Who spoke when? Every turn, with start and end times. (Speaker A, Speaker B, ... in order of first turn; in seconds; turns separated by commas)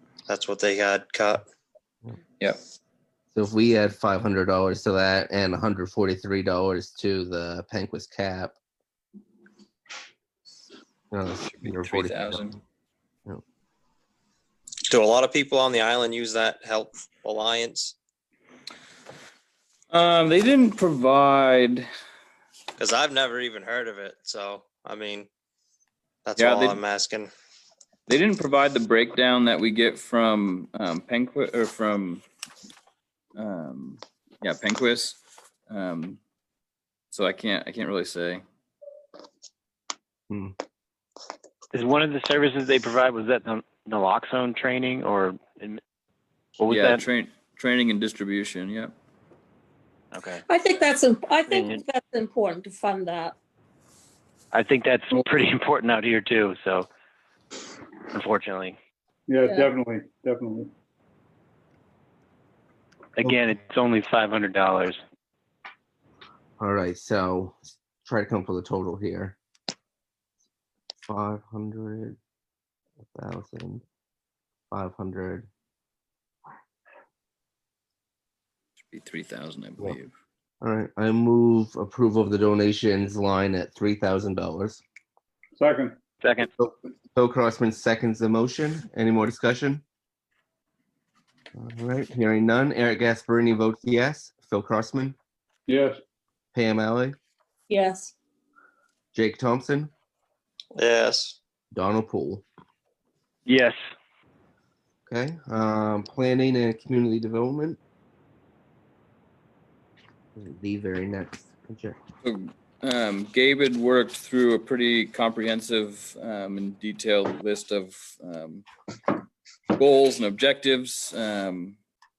Speaker A: 0.3-1.4, Speaker B: 3.3-8.5, Speaker B: 11.1-12.6, Speaker C: 11.4-12.5, Speaker A: 14.9-17.9, Speaker C: 19.9-21.9, Speaker A: 22.8-25.3, Speaker A: 26.2-27.3, Speaker C: 26.4-26.8, Speaker C: 28.1-32.2, Speaker C: 33.4-35.2, Speaker C: 35.7-36.2, Speaker C: 37.1-38.4, Speaker B: 40.3-40.5, Speaker D: 41.7-45.8, Speaker D: 46.6-47.0, Speaker C: 46.7-48.9, Speaker D: 50.1-50.4, Speaker E: 50.5-53.3, Speaker D: 51.5-51.8, Speaker D: 54.5-56.9, Speaker D: 58.1-58.8, Speaker F: 59.3-60.7, Speaker E: 59.4-59.8, Speaker D: 63.2-65.0, Speaker B: 66.6-69.4, Speaker B: 71.0-72.2, Speaker B: 73.1-73.8, Speaker B: 74.7-75.5, Speaker C: 78.9-80.1, Speaker B: 80.6-84.8, Speaker F: 85.6-86.0, Speaker D: 86.2-86.5, Speaker B: 86.6-89.8, Speaker B: 91.5-95.2, Speaker F: 95.7-96.0, Speaker B: 96.5-97.1, Speaker E: 97.7-98.1, Speaker B: 99.1-99.9, Speaker A: 100.8-101.4, Speaker B: 101.7-102.4, Speaker D: 103.5-103.8, Speaker B: 105.1-107.8, Speaker B: 110.3-112.0, Speaker C: 112.2-118.7, Speaker C: 119.7-121.8